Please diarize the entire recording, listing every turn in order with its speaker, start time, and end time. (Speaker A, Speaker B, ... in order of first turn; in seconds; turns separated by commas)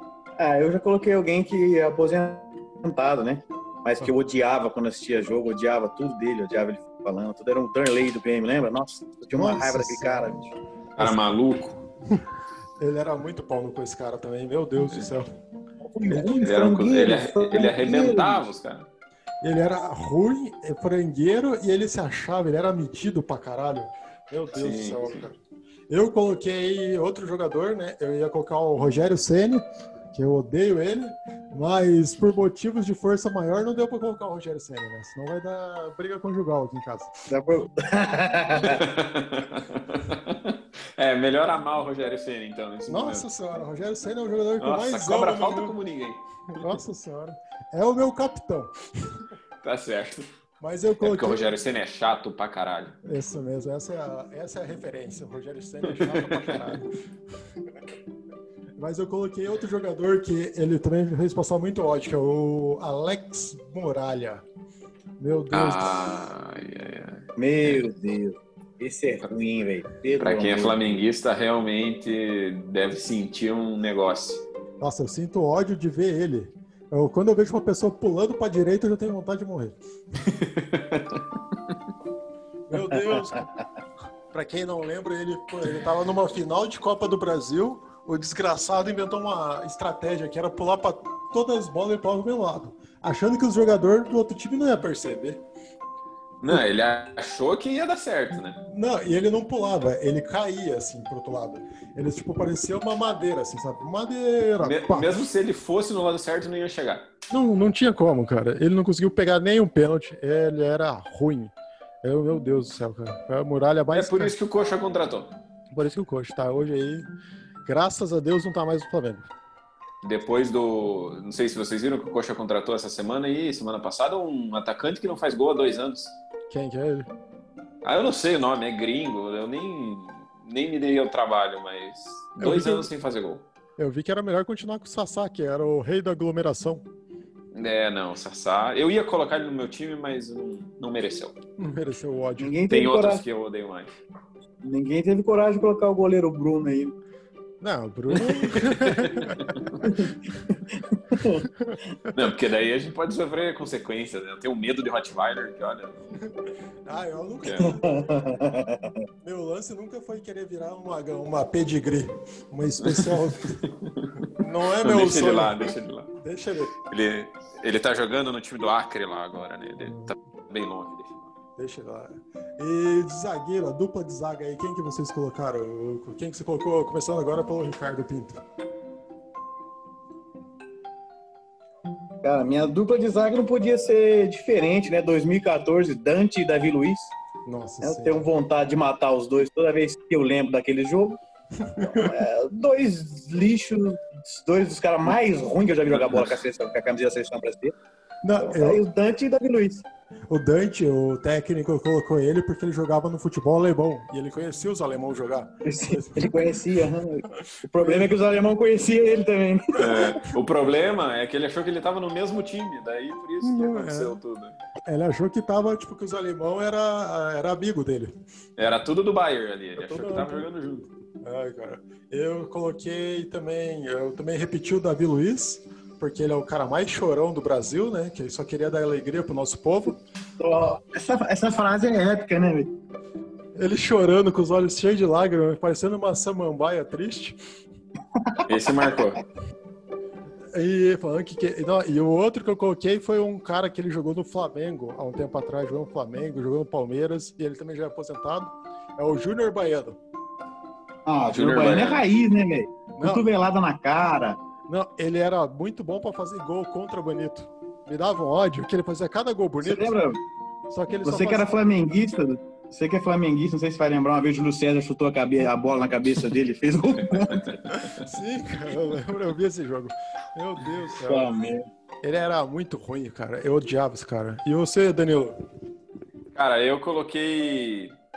Speaker A: 0.4-10.5, Speaker B: 9.3-11.2, Speaker C: 11.0-11.8, Speaker B: 12.8-15.3, Speaker A: 15.8-18.5, Speaker B: 16.1-16.4, Speaker C: 16.4-18.9, Speaker B: 19.4-25.4, Speaker C: 24.5-25.2, Speaker B: 25.9-37.1, Speaker A: 37.3-38.8, Speaker C: 38.6-43.2, Speaker B: 42.9-45.8, Speaker C: 44.6-46.8, Speaker B: 46.5-48.7, Speaker C: 49.6-50.2, Speaker B: 50.6-51.5, Speaker C: 51.0-53.0, Speaker B: 53.0-56.9, Speaker C: 55.9-56.8, Speaker B: 58.8-64.4, Speaker B: 65.2-66.2, Speaker C: 65.5-67.9, Speaker A: 67.4-71.0, Speaker C: 70.2-74.4, Speaker B: 74.8-79.8, Speaker C: 80.2-81.2, Speaker B: 82.7-83.5, Speaker A: 82.9-83.4, Speaker B: 84.3-95.4, Speaker C: 96.4-98.6, Speaker B: 98.7-105.2, Speaker C: 104.6-107.1, Speaker B: 107.3-114.3, Speaker C: 113.9-115.4, Speaker B: 115.7-117.1, Speaker B: 117.6-119.3, Speaker C: 120.0-126.2, Speaker B: 126.5-127.1, Speaker C: 127.8-133.4, Speaker B: 132.4-132.9, Speaker B: 133.8-136.8, Speaker C: 137.5-141.4, Speaker B: 141.6-142.6, Speaker A: 142.4-143.2, Speaker C: 142.7-143.9, Speaker A: 144.6-146.9, Speaker B: 147.6-150.1, Speaker C: 148.1-149.9, Speaker A: 149.8-150.1, Speaker A: 150.7-151.4, Speaker B: 151.4-152.1, Speaker C: 152.1-156.0, Speaker B: 156.8-158.2, Speaker C: 157.4-157.7, Speaker A: 157.6-159.0, Speaker B: 159.2-163.6, Speaker C: 162.8-164.3, Speaker B: 164.3-166.8, Speaker C: 164.8-166.1, Speaker C: 166.8-171.3, Speaker B: 169.8-170.1, Speaker B: 171.6-178.4, Speaker A: 182.2-187.1, Speaker B: 187.4-188.3, Speaker A: 187.8-191.2, Speaker B: 191.6-192.1, Speaker A: 191.8-197.7, Speaker B: 198.2-198.8, Speaker A: 198.4-199.8, Speaker B: 200.3-206.5, Speaker A: 205.7-210.0, Speaker B: 207.4-208.1, Speaker C: 209.8-214.6, Speaker B: 209.8-210.3, Speaker B: 213.4-214.2, Speaker B: 214.8-218.1, Speaker C: 218.6-220.9, Speaker B: 219.8-220.5, Speaker B: 221.2-230.0, Speaker A: 230.4-232.7, Speaker B: 233.6-237.4, Speaker A: 238.1-239.0, Speaker C: 238.5-239.2, Speaker B: 240.5-250.0, Speaker A: 251.1-254.4, Speaker C: 251.3-252.1, Speaker B: 253.0-253.2, Speaker B: 254.7-260.0, Speaker A: 259.6-260.2, Speaker B: 260.7-261.5, Speaker A: 261.0-267.5, Speaker B: 267.7-271.3, Speaker A: 271.0-271.7, Speaker B: 272.0-275.4, Speaker C: 276.3-278.0